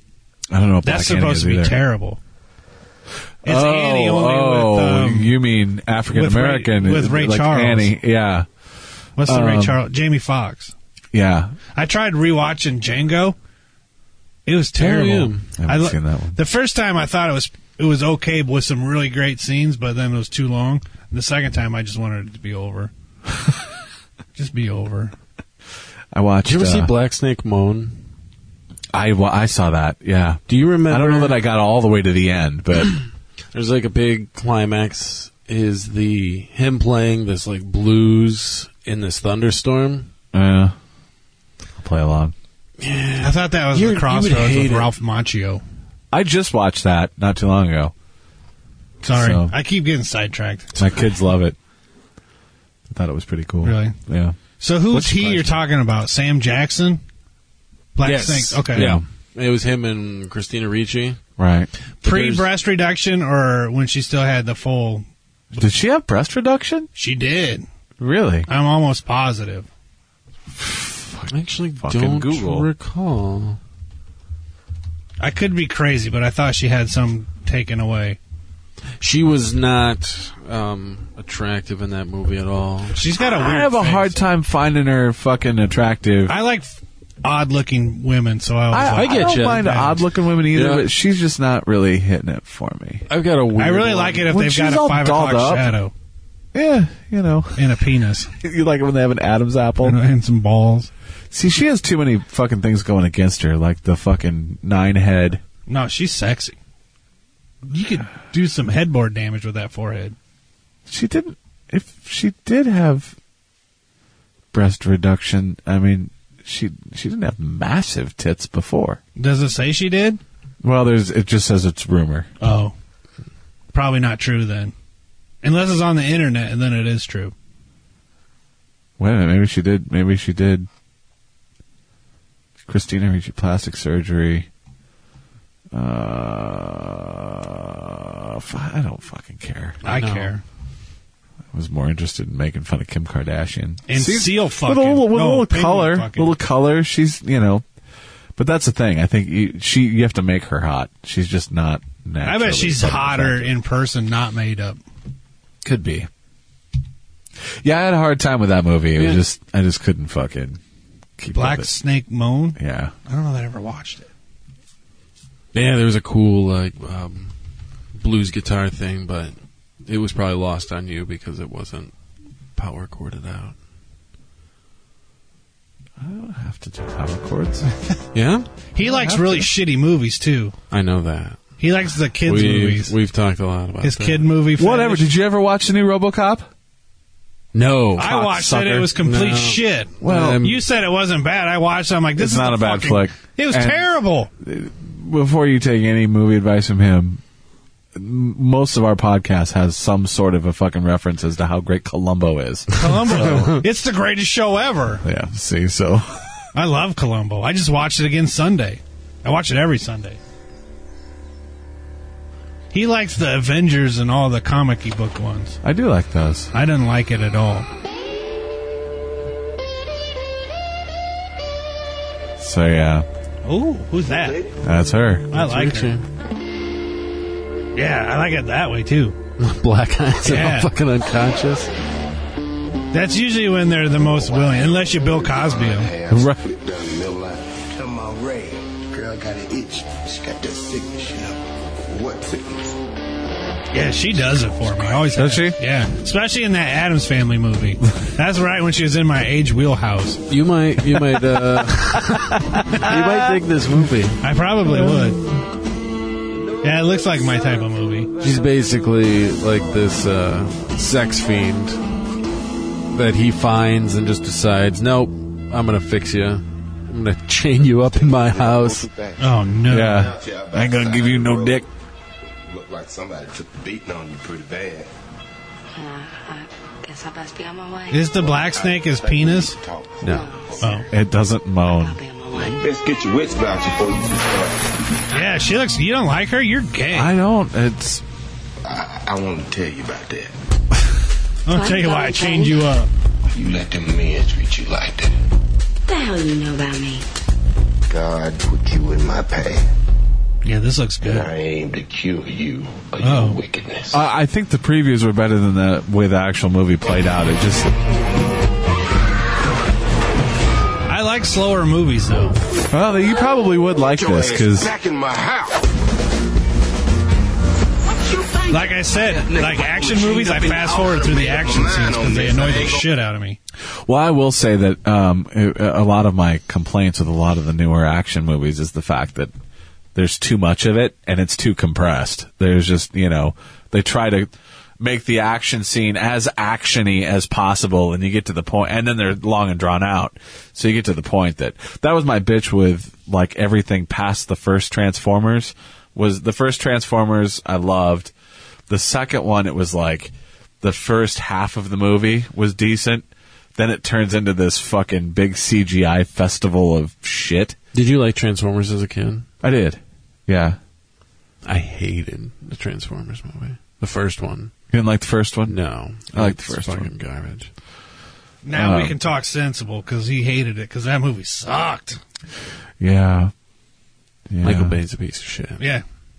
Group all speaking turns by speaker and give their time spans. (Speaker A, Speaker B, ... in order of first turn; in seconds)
Speaker A: 0.5-1.8, 3.4-8.5, 9.2-9.8, 11.1-11.6, 15.6-16.4, 26.1-26.9, 28.9-33.0, 40.3-40.8, 41.8-42.4, 46.1-47.9, 49.1-49.5, 50.8-51.6, 52.9-54.4, 54.9-55.6, 58.7-59.0, 61.4-61.7, 65.6-66.9, 68.0-68.5, 70.5-72.7, 83.2-86.4, 88.7-93.1, 94.3-95.8, 96.5-97.7, 98.3-100.0, 101.3-105.4, 110.9-113.2, 114.5-119.0, 120.6-122.3, 129.0-130.7, 132.7-134.5, 135.7-139.8, 141.5-147.7, 148.4-153.6, 155.6-156.1, 157.6-160.6, 161.2-161.7, 162.6-162.9, 176.0-177.7, 178.8-179.5, 184.6-186.5, 188.0-188.9, 190.0-190.4, 192.2-193.9, 194.4-197.2, 197.9-203.6, 205.0-206.3, 215.6-216.5, 222.4-223.1, 224.6-225.3, 236.1-236.4, 245.1-245.6, 252.3-253.4, 269.7-271.7, 280.9-282.0, 286.9-288.0, 303.9-307.7, 312.7-314.8, 323.9-329.3, 329.9-348.1, 348.7-357.6, 359.4-360.6, 364.7-365.6, 366.1-366.9, 368.5-369.0, 372.8-373.3, 374.3-374.8
Speaker B: 0.8-2.2, 3.5-5.3, 6.1-8.0, 9.2-10.7, 11.8-13.4, 14.5-22.9, 24.4-25.1, 43.2-45.6, 49.0-50.8, 53.6-54.0, 54.6-57.0, 58.0-58.9, 62.0-65.7, 67.0-67.7, 68.5-69.7, 75.2-78.2, 83.0-84.2, 86.3-89.9, 93.6-95.9, 97.6-98.3, 99.8-100.9, 105.7-106.6, 107.7-110.2, 119.2-120.2, 122.4-122.7, 123.7-124.7, 125.4-127.3, 139.8-140.4, 143.9-146.3, 152.2-154.8, 161.3-164.1, 178.8-180.5, 181.6-182.9, 183.8-185.1, 188.0-194.3, 202.8-205.0, 206.5-210.2, 212.7-215.6, 216.5-217.7, 223.4-224.4, 225.3-225.9, 227.8-229.2, 230.2-230.7, 232.9-235.9, 243.7-250.2, 254.2-255.2, 256.6-258.1, 269.2-270.1, 277.9-279.6, 280.6-280.9, 285.1-287.1, 291.5-292.9, 300.4-301.3, 303.0-303.4, 310.9-312.4, 318.5-323.4, 368.4-372.0
Speaker C: 14.8-15.5, 26.4-28.0, 30.5-31.4, 33.5-40.1, 42.8-44.9, 58.0-61.2, 62.0-62.5, 71.3-73.6, 79.0-83.0, 88.9-89.9, 90.5-90.9, 93.1-94.3, 139.9-140.3, 159.0-159.2, 165.5-167.3, 168.0-171.9, 172.6-173.6, 178.1-178.5, 180.7-181.4, 182.2-184.3, 187.5-188.2, 189.0-190.6, 225.3-226.0, 229.4-231.7, 250.3-254.2, 258.2-261.8, 262.9-268.9, 357.7-359.3, 361.4-364.5, 365.5-367.5, 374.4-375.6
Speaker D: 233.9-242.8, 267.9-269.3, 269.9-271.7, 272.4-274.9, 278.1-280.8, 282.4-284.7, 288.6-290.3, 293.3-295.1, 297.9-299.7, 301.1-304.0, 314.0-315.7, 318.2-318.5, 319.3-322.9
Speaker E: 275.8-278.1, 280.1-280.6, 281.6-282.6, 291.5-292.6, 295.9-297.0